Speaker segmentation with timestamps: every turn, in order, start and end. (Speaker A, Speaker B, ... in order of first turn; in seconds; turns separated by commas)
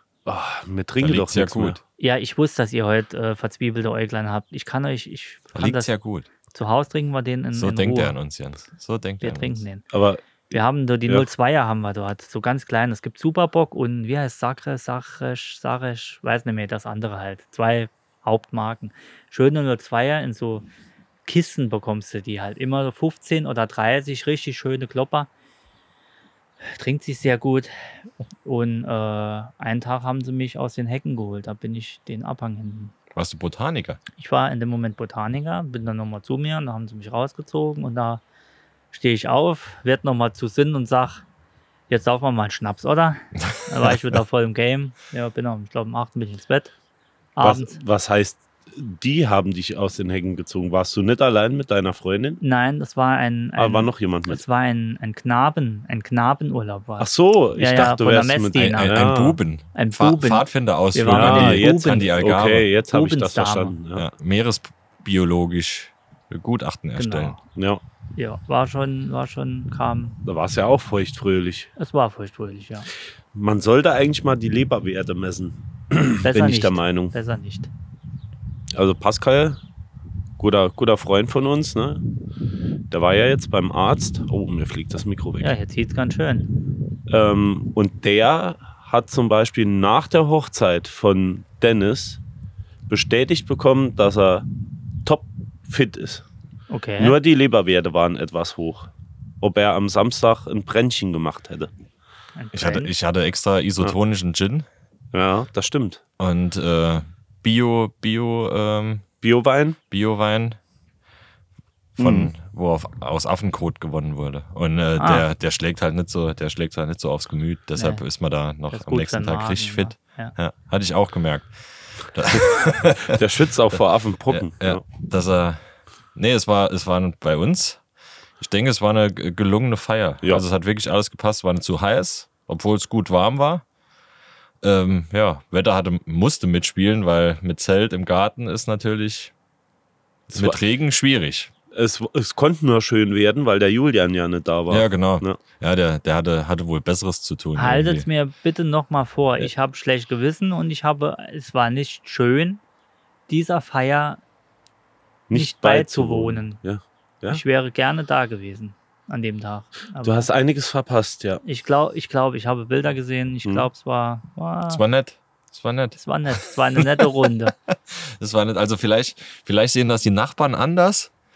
Speaker A: 0.3-1.8, Speaker B: 1.0-1.8, Speaker C: 2.0-6.0, Speaker B: 5.5-6.3, Speaker C: 6.5-8.2, Speaker B: 7.5-9.6, Speaker C: 9.2-9.8, Speaker A: 9.9-10.2, Speaker C: 10.5-20.7, Speaker C: 21.3-25.3, Speaker C: 26.6-27.7, Speaker C: 28.4-32.9, Speaker B: 33.1-34.0, Speaker C: 34.2-38.2, Speaker C: 38.9-41.2, Speaker C: 41.9-46.7, Speaker C: 47.4-47.8, Speaker A: 47.4-52.4, Speaker C: 52.4-59.0, Speaker A: 53.6-54.4, Speaker A: 57.0-59.4, Speaker B: 58.6-62.7, Speaker C: 59.8-62.2, Speaker A: 61.1-64.1, Speaker C: 62.9-63.8, Speaker B: 64.0-67.3, Speaker C: 67.0-67.4, Speaker A: 67.5-67.8, Speaker C: 68.2-70.2, Speaker A: 70.2-71.7, Speaker C: 71.8-72.9, Speaker A: 73.3-77.2, Speaker C: 76.2-77.7, Speaker A: 78.8-79.6, Speaker A: 80.4-82.0, Speaker A: 82.9-85.5, Speaker C: 85.4-86.5, Speaker A: 87.1-92.2, Speaker A: 92.9-94.5, Speaker A: 95.0-96.2, Speaker C: 96.7-97.2, Speaker A: 97.0-98.9, Speaker A: 99.4-101.7, Speaker C: 102.4-102.9, Speaker B: 102.5-104.7, Speaker A: 105.1-106.0, Speaker B: 106.2-109.0, Speaker A: 109.2-109.8, Speaker B: 109.9-110.6, Speaker A: 112.0-112.3, Speaker B: 112.0-123.2, Speaker C: 115.0-115.3, Speaker C: 117.8-118.0, Speaker C: 118.7-120.3, Speaker A: 123.1-124.8, Speaker B: 124.3-125.6, Speaker B: 126.2-127.8, Speaker B: 128.4-133.6, Speaker B: 134.6-139.3, Speaker B: 140.3-141.5, Speaker A: 140.3-140.6, Speaker A: 141.7-145.4, Speaker B: 144.7-148.1, Speaker C: 147.6-152.6, Speaker C: 153.3-154.2, Speaker A: 155.3-157.4, Speaker C: 155.3-156.6, Speaker C: 157.3-160.3, Speaker A: 160.0-161.4, Speaker C: 161.4-164.8, Speaker B: 164.7-166.0, Speaker C: 166.0-167.6, Speaker B: 167.7-171.1